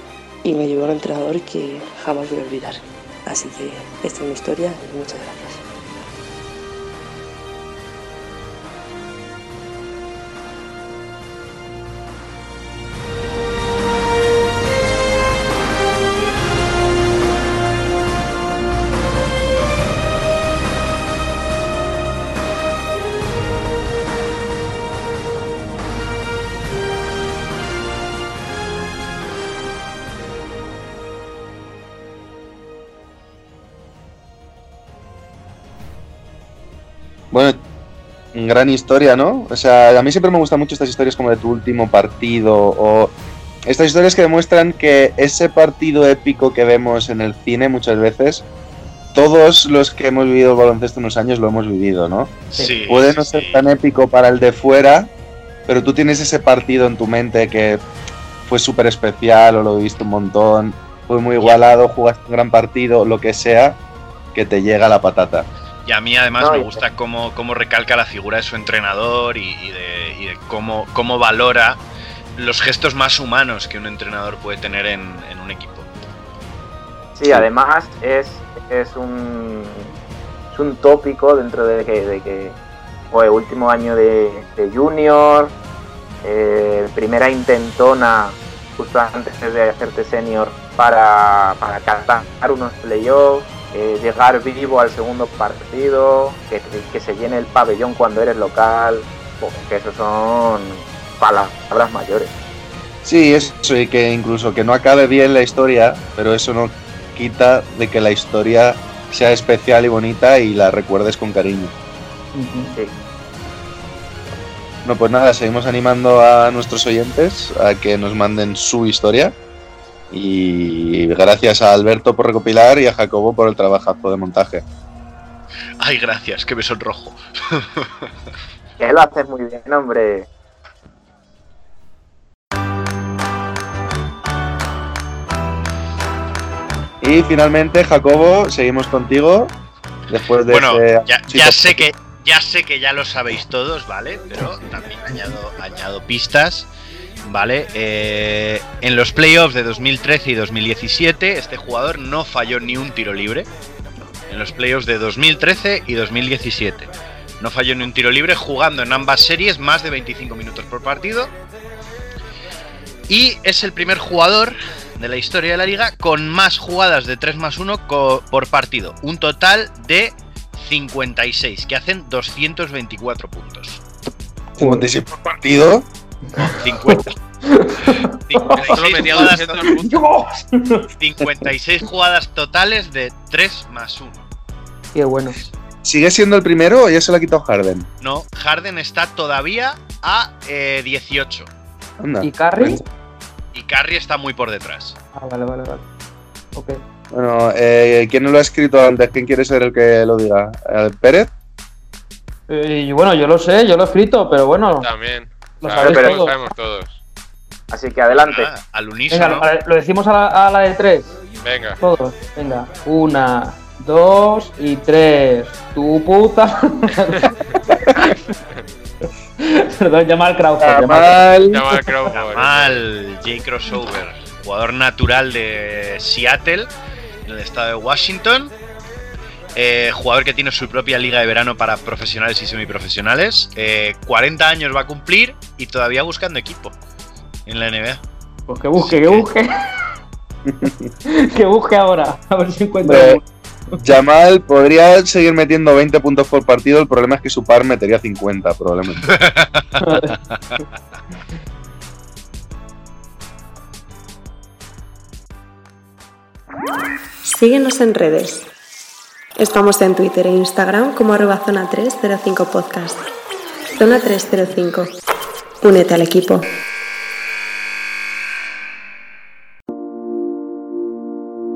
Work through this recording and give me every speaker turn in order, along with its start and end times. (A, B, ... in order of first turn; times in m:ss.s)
0:00.4-0:05.6 A
0:37.3-0:37.6 B
0:38.3-0:43.2 B
0:43.7-0:48.4 B
0:49.1-0:52.4 B
0:52.5-0:53.6 C
0:52.9-0:55.1 B
0:55.7-0:57.8 B
0:58.5-1:03.8 B
1:04.3-1:05.5 B
1:05.8-1:11.8 C
1:06.4-1:06.8 D
1:12.4-1:15.9 C
1:17.2-1:19.9 D
1:20.5-1:22.6 D
1:23.1-1:25.5 D
1:26.2-1:42.3 D
1:43.0-1:51.7 B
1:52.4-1:52.7 E
1:54.8-1:59.4 B
2:00.1-2:04.6 B
2:05.8-2:07.9 C
2:08.8-2:10.3 D
2:17.0-2:19.5 B
2:20.1-2:21.9 B
2:20.5-2:26.7 C
2:27.2-2:33.5 C
2:34.3-2:41.3 C
2:43.1-2:53.8 C
2:54.6-2:54.9 E
2:54.6-2:55.9 B
2:56.4-2:57.2 C
2:56.9-3:00.9 E
2:58.1-2:59.8 C
2:58.6-3:00.0 F
3:01.0-3:04.3 C
3:04.9-3:05.4 E
3:05.8-3:07.9 B
3:08.0-3:11.5 C
3:12.0-3:12.8 B
3:12.2-3:12.8 E
3:13.5-3:15.0 C
3:15.2-3:15.8 E
3:17.1-3:21.3 B
3:22.5-3:24.9 E
3:24.8-3:27.0 F
3:25.6-3:26.4 E
3:25.8-3:26.2 D
3:27.7-3:28.5 D
3:28.3-3:29.5 C
3:29.1-3:31.2 E
3:31.4-3:31.8 F
3:31.8-3:38.1 E
3:39.4-3:41.2 E
3:40.6-3:41.8 B
3:41.5-3:42.8 F
3:42.1-3:46.7 C
3:47.2-3:48.6 C
3:49.6-3:56.8 C
3:57.5-3:58.0 C
3:58.5-3:59.6 E
3:58.8-3:59.2 C
4:00.5-4:00.9 B
4:01.1-4:03.8 E
4:02.8-4:03.2 B
4:03.8-4:09.1 B
4:09.0-4:10.6 C
4:09.8-4:10.2 E
4:17.2-4:18.5 G
4:19.4-4:23.1 G
4:23.8-4:24.9 G
4:25.6-4:26.5 G